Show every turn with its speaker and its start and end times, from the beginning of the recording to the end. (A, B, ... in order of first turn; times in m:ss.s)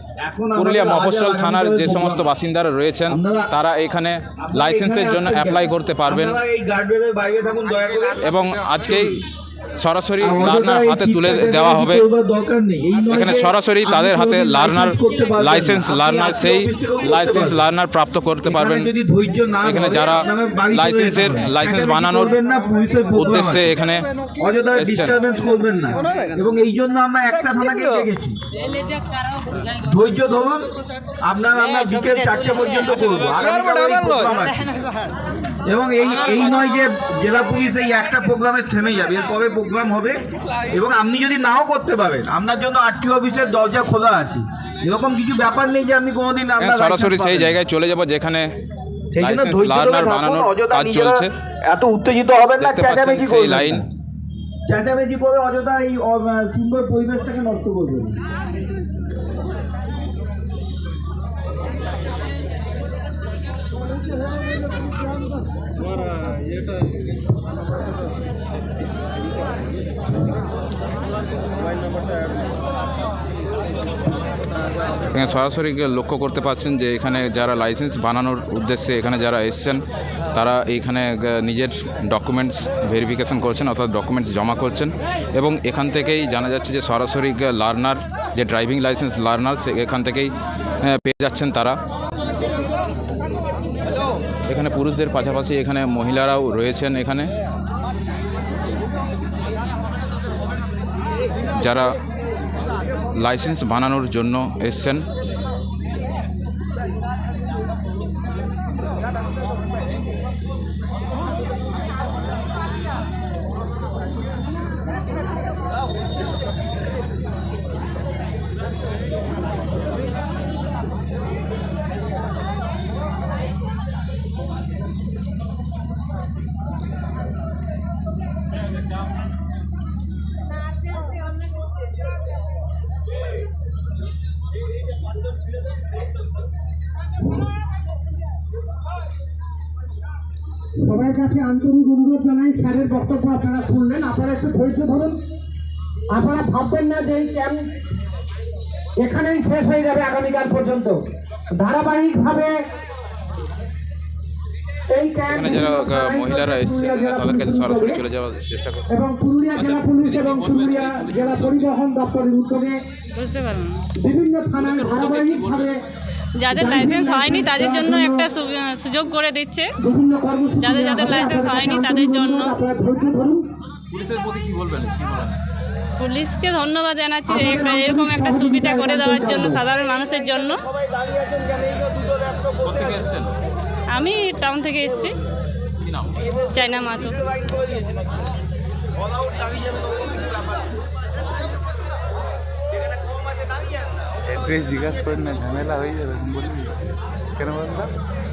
0:00.2-0:02.2 A
0:00.6-0:06.4 B
0:03.1-0:03.5 A
0:04.4-0:08.3 A
0:08.2-0:09.2 B
0:09.8-0:12.0 B
0:10.2-0:17.6 A
0:13.1-0:18.9 B
0:18.5-0:23.7 A
0:19.6-0:22.4 B
0:23.2-0:24.1 B
0:24.4-0:28.4 A
0:24.8-0:25.1 B
0:29.8-0:30.7 A
0:31.2-0:34.7 A
0:35.7-0:47.6 A
0:46.6-0:48.5 B
0:49.1-0:53.8 A
0:49.2-0:51.3 B
0:52.6-0:53.8 B
0:54.7-0:58.2 A
1:15.1-1:19.8 B
1:20.3-1:31.8 B
1:34.5-1:37.3 B
1:41.6-1:41.9 B
1:43.2-1:45.1 B
2:20.8-2:25.2 C
2:26.1-2:27.7 C
2:29.0-2:31.0 C
2:31.6-2:32.6 C
2:34.9-2:38.0 C
2:35.3-2:38.9 B
2:38.9-2:42.8 C
2:39.5-2:41.8 B
2:43.1-2:43.8 D
2:44.0-2:45.8 C
2:44.6-2:45.8 B
2:46.4-2:49.7 D
2:46.5-2:48.3 C
2:49.8-2:53.5 C
2:50.6-2:52.6 D
2:53.9-2:55.4 B
2:56.0-3:00.6 D
2:57.3-2:59.6 C
3:01.4-3:01.8 A
3:02.6-3:03.3 B
3:03.9-3:05.2 D
3:05.8-3:06.2 B
3:06.4-3:07.2 D
3:14.3-3:16.7 E
3:17.4-3:17.9 E